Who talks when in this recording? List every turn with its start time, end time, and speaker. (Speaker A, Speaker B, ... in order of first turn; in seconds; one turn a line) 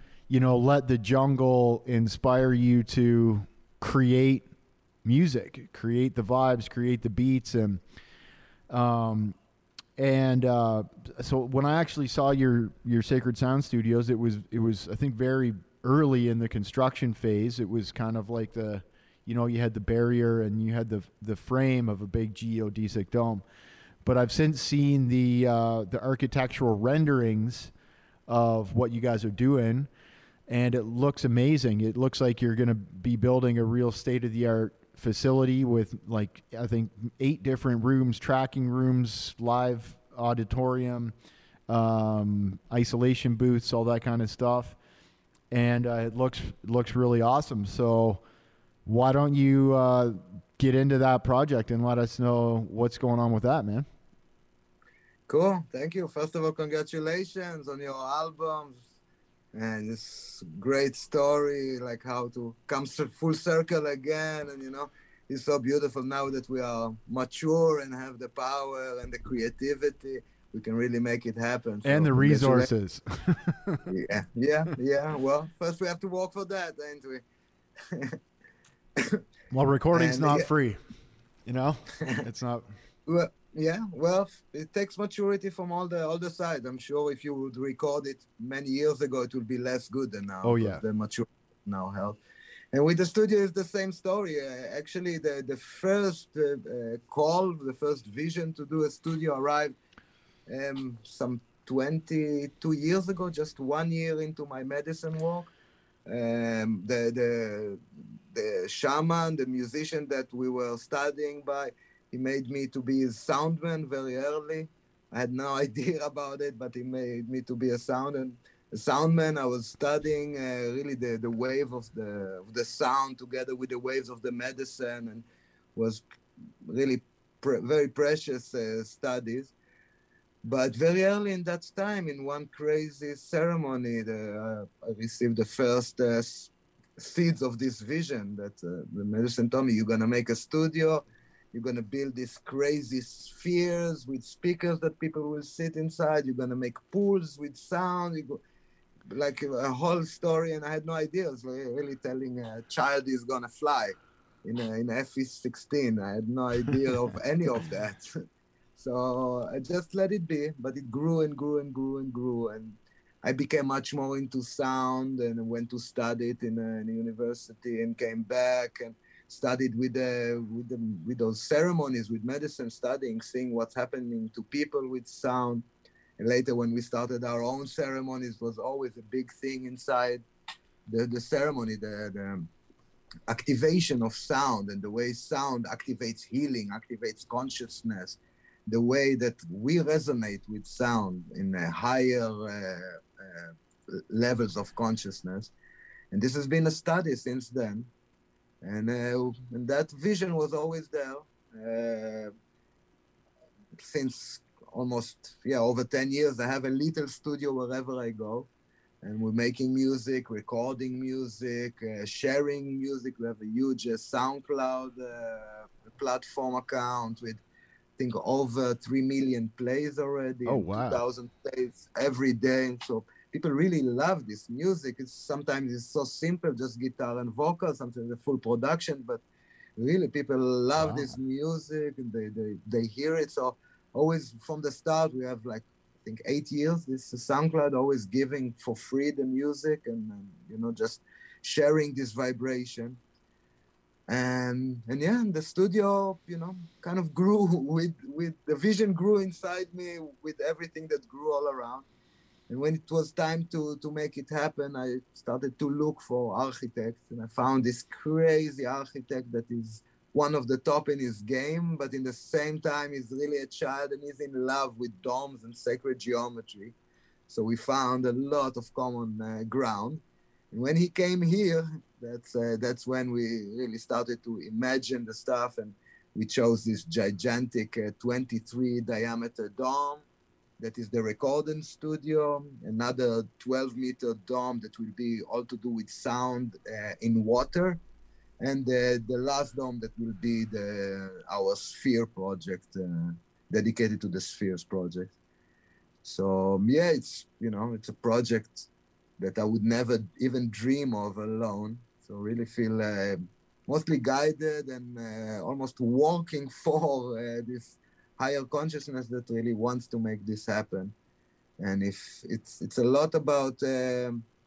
Speaker A: 0.3-4.4
Speaker A: 5.0-7.8
Speaker A: 8.7-9.3
Speaker A: 10.0-23.4
Speaker A: 24.0-27.7
Speaker A: 28.3-29.9
Speaker A: 30.5-41.1
Speaker A: 41.7-44.8
Speaker A: 45.5-48.2
Speaker A: 48.9-53.9
Speaker B: 55.3-58.8
Speaker B: 59.5-72.7
Speaker A: 71.8-73.8
Speaker B: 73.9-77.2
Speaker B: 77.8-78.2
Speaker A: 79.5-80.8
Speaker B: 79.9-80.5
Speaker A: 81.5-82.7
Speaker B: 83.0-92.2
Speaker A: 90.4-90.8
Speaker B: 92.7-99.7
Speaker B: 100.5-105.5
Speaker B: 106.1-126.0
Speaker B: 126.6-129.5
Speaker B: 130.4-148.4
Speaker B: 149.1-158.2
Speaker B: 158.8-175.6
Speaker B: 176.2-180.2
Speaker B: 180.9-182.5
Speaker B: 183.3-195.5
Speaker B: 196.1-197.9
Speaker B: 198.6-202.3
Speaker B: 203.8-208.5
Speaker B: 209.0-217.4
Speaker B: 218.0-229.2
Speaker A: 220.4-221.0
Speaker B: 229.8-243.0
Speaker A: 230.8-231.1
Speaker B: 244.1-251.9
Speaker B: 252.5-266.8
Speaker B: 267.3-280.0
Speaker B: 280.6-287.8
Speaker B: 288.4-295.1
Speaker B: 296.0-310.9
Speaker B: 311.6-314.2